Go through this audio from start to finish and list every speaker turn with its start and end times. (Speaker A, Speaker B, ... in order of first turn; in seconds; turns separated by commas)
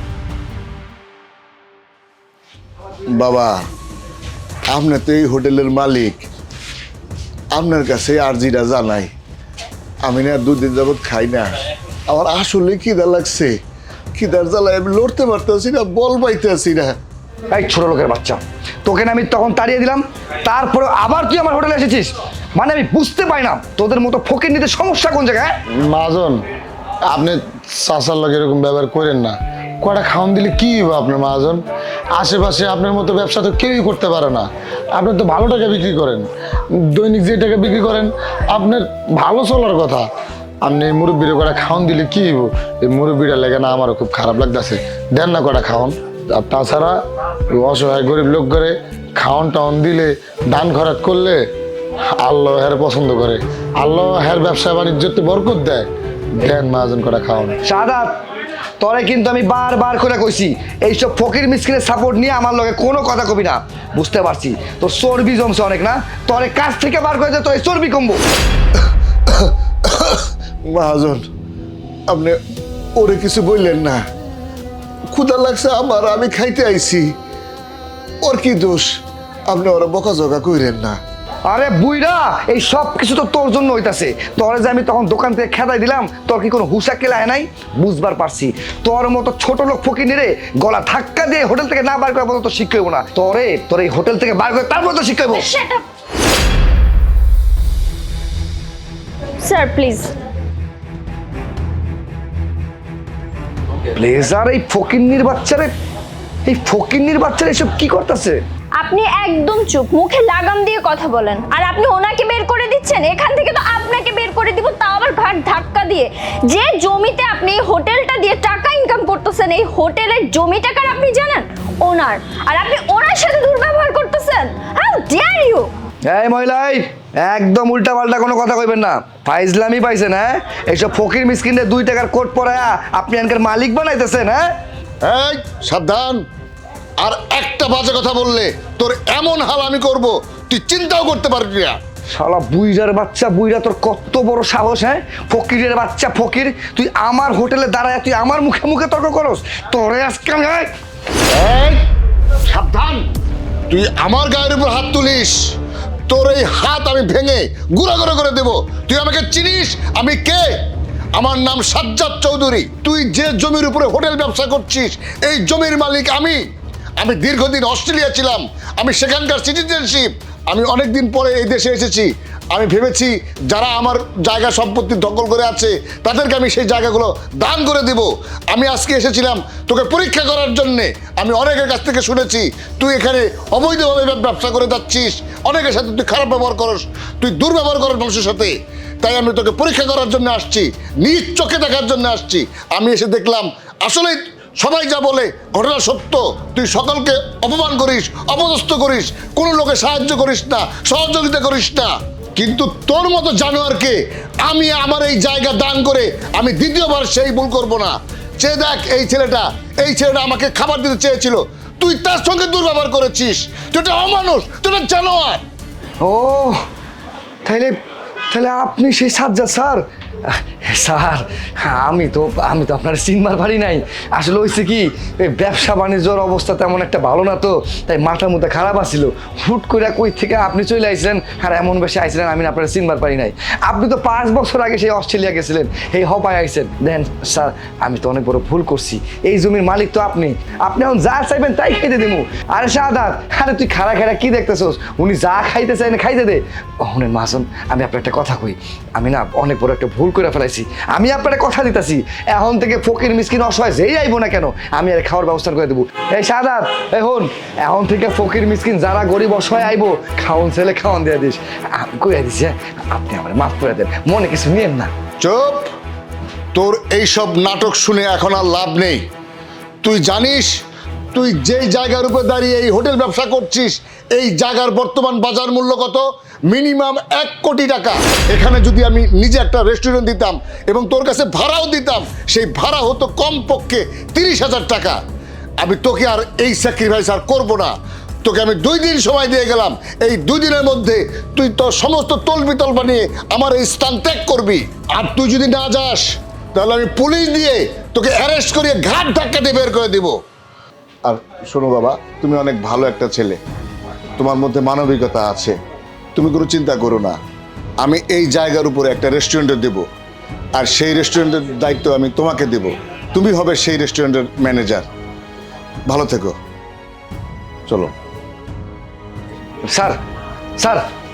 Speaker A: 3.1-3.6, Speaker A: 4.7-6.3, Speaker A: 7.5-9.1, Speaker A: 10.0-13.6, Speaker A: 14.1-17.0, Speaker B: 17.5-25.6, Speaker C: 25.7-26.4, Speaker C: 27.1-40.1, Speaker C: 40.6-51.5, Speaker C: 52.2-57.6, Speaker B: 57.6-58.1, Speaker B: 58.8-68.2, Speaker A: 69.3-71.3, Speaker A: 72.1-72.4, Speaker A: 72.9-74.0, Speaker A: 75.1-77.1, Speaker A: 78.2-81.0, Speaker B: 81.5-95.5, Speaker D: 95.3-95.8, Speaker D: 99.4-100.1, Speaker B: 103.9-105.7, Speaker B: 106.4-108.4, Speaker D: 108.8-125.7, Speaker B: 126.0-134.5, Speaker A: 135.0-136.2, Speaker A: 137.0-141.8, Speaker B: 142.1-150.7, Speaker A: 151.3-151.8, Speaker A: 152.4-153.0, Speaker A: 153.7-155.5, Speaker A: 156.1-160.6, Speaker A: 161.2-166.4, Speaker A: 167.0-215.4, Speaker B: 216.0-216.6, Speaker B: 217.4-217.8, Speaker B: 218.3-264.9, Speaker A: 265.2-265.7, Speaker A: 266.5-269.0, Speaker A: 269.8-270.5, Speaker A: 271.1-285.0, Speaker A: 285.6-300.2, Speaker A: 301.0-303.4, Speaker A: 304.2-305.6, Speaker A: 306.1-307.2, Speaker A: 307.8-309.9, Speaker A: 310.5-314.9, Speaker A: 315.9-316.4, Speaker A: 317.7-317.9, Speaker B: 319.6-320.0, Speaker B: 320.6-320.9